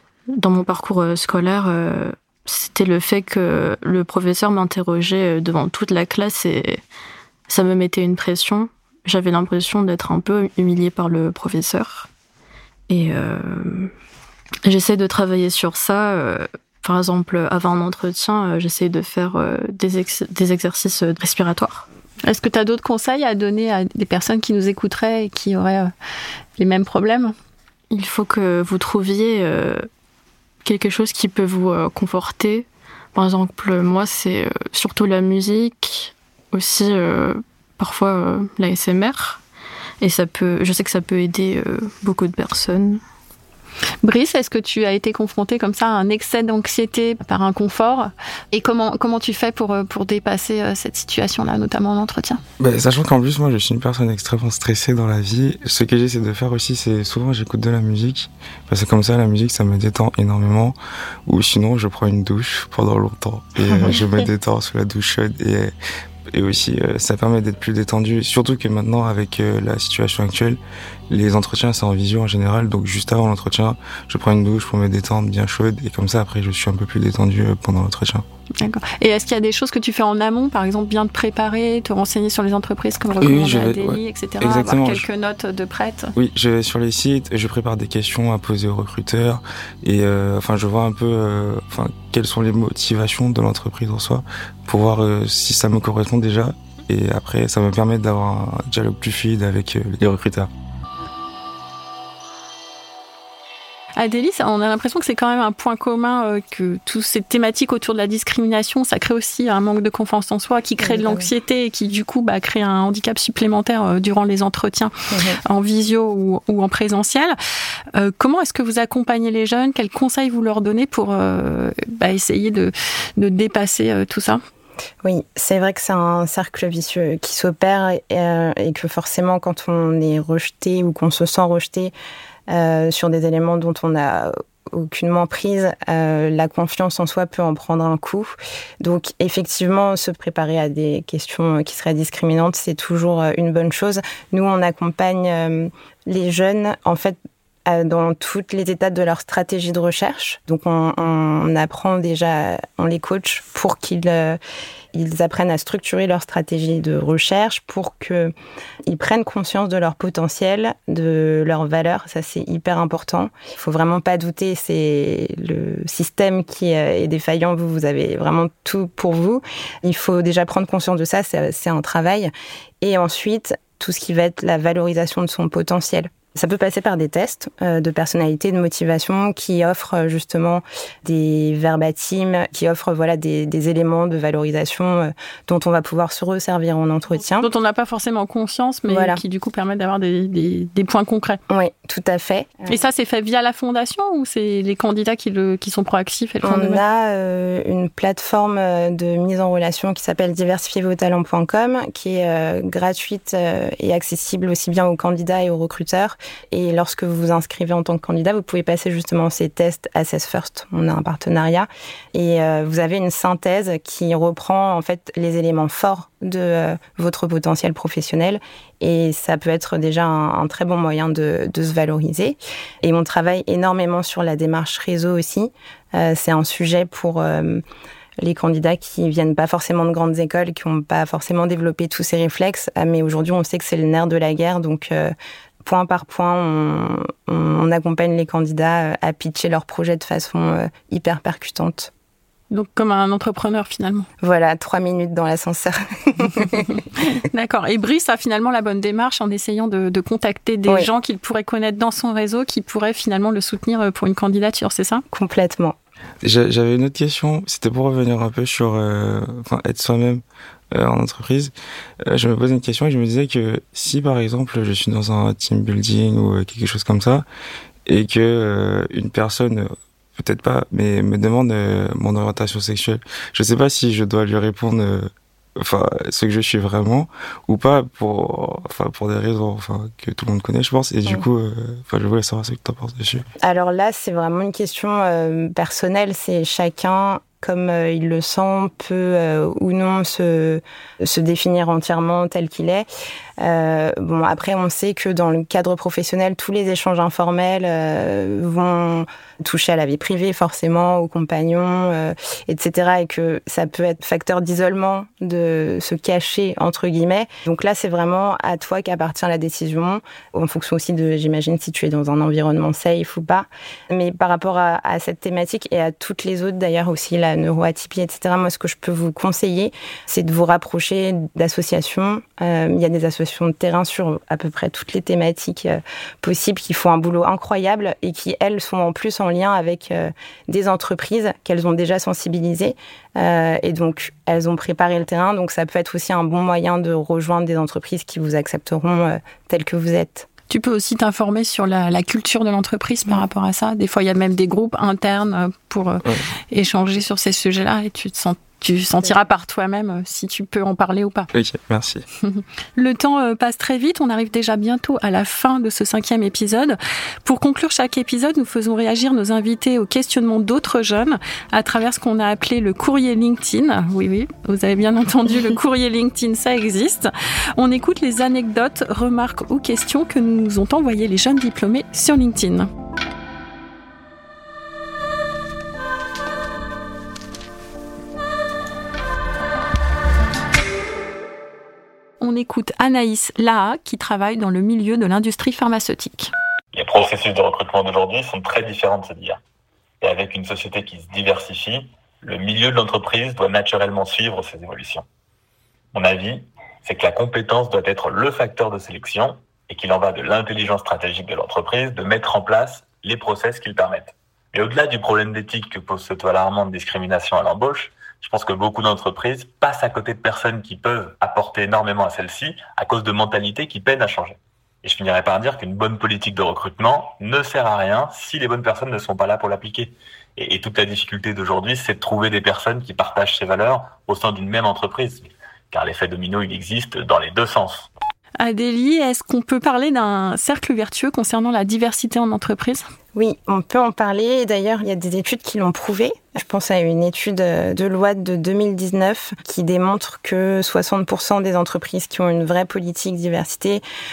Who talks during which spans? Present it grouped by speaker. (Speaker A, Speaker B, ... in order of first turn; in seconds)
Speaker A: 0.3-6.8, 7.5-12.1, 12.9-13.9, 14.6-21.9, 27.9-29.9, 30.6-39.4, 40.0-43.0
Speaker B: 22.2-25.9, 26.6-27.4, 44.0-52.4, 78.6-86.1, 104.0-114.9, 115.5-117.4, 117.9-124.4, 187.4-191.4, 192.7-196.8, 242.5-244.1, 247.0-255.0, 340.5-351.3, 352.2-372.7, 382.2-386.3, 428.4-432.9
Speaker C: 52.6-65.7, 66.3-70.6, 71.1-78.2, 83.2-85.0, 86.1-100.5, 256.2-267.3, 267.9-283.3, 351.3-352.1
Speaker D: 110.8-111.3, 115.1-115.4, 125.0-131.9, 132.5-154.4, 154.9-158.3, 158.9-187.5, 188.9-189.2, 191.5-192.8, 196.4-227.6, 228.2-241.9, 244.2-246.8, 255.1-255.8, 283.4-292.9, 293.4-340.3, 433.1-443.8
Speaker E: 386.7-389.4, 390.0-395.1, 395.9-427.9